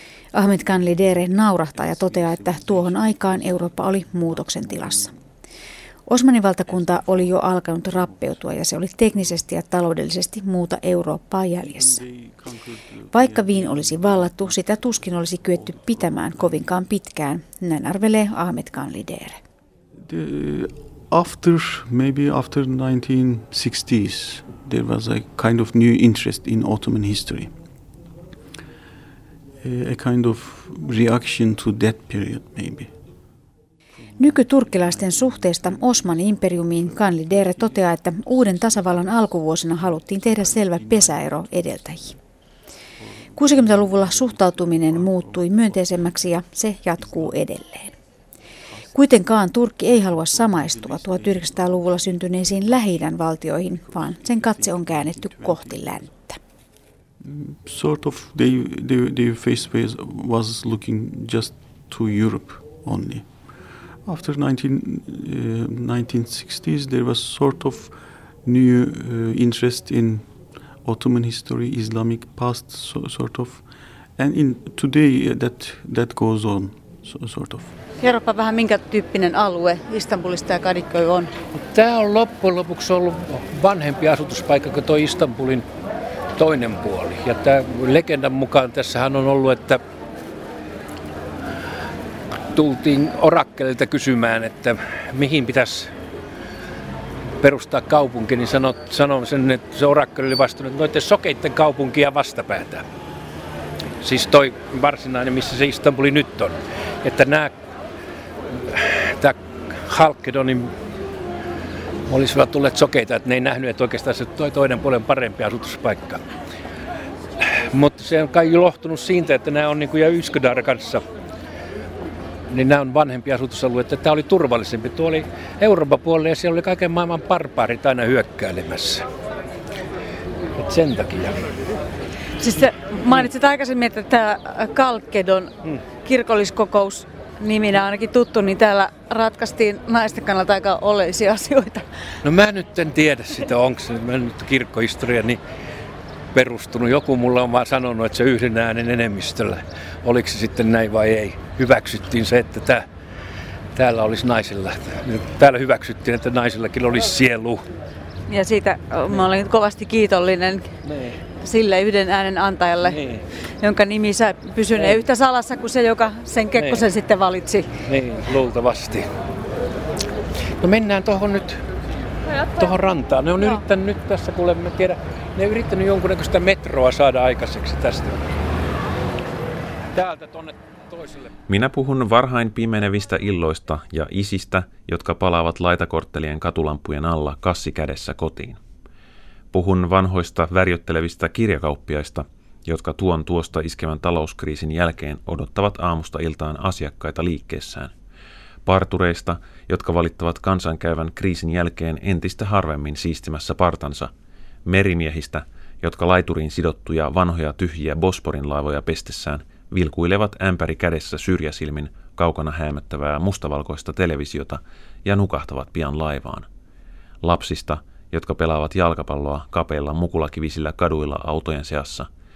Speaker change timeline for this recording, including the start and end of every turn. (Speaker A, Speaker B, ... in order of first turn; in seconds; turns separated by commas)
Speaker A: 0.3-5.1, Speaker B: 0.6-5.2, Speaker A: 6.1-12.0, Speaker B: 6.6-9.4, Speaker B: 11.6-16.9, Speaker A: 13.1-19.4, Speaker B: 20.0-27.5, Speaker B: 29.6-32.9, Speaker B: 34.0-42.2, Speaker A: 34.2-42.2, Speaker B: 43.0-47.5, Speaker A: 43.3-47.9, Speaker B: 48.7-49.0, Speaker A: 48.9-56.4, Speaker B: 50.0-52.8, Speaker B: 53.7-56.1, Speaker B: 57.2-73.6, Speaker B: 74.2-77.7, Speaker C: 78.0-81.3, Speaker D: 81.5-85.6, Speaker D: 86.3-89.8, Speaker D: 92.5-95.9, Speaker D: 97.4-102.8, Speaker D: 104.0-107.5, Speaker D: 108.7-110.7, Speaker D: 112.1-116.2, Speaker D: 117.4-121.0, Speaker D: 122.5-129.1, Speaker D: 130.6-131.4, Speaker C: 132.4-135.5, Speaker C: 136.0-141.8, Speaker D: 142.2-145.4, Speaker D: 146.3-152.8, Speaker D: 153.7-157.6, Speaker C: 158.3-160.7, Speaker D: 160.8-161.2, Speaker C: 161.4-163.0, Speaker D: 162.8-163.2, Speaker C: 163.6-167.7, Speaker D: 164.8-165.0, Speaker D: 166.6-166.8, Speaker D: 167.8-169.1, Speaker D: 170.6-171.6, Speaker D: 172.6-178.2, Speaker D: 179.9-181.3, Speaker E: 181.5-188.6, Speaker E: 189.5-197.9, Speaker E: 198.6-204.1, Speaker E: 204.7-216.5, Speaker E: 217.2-222.1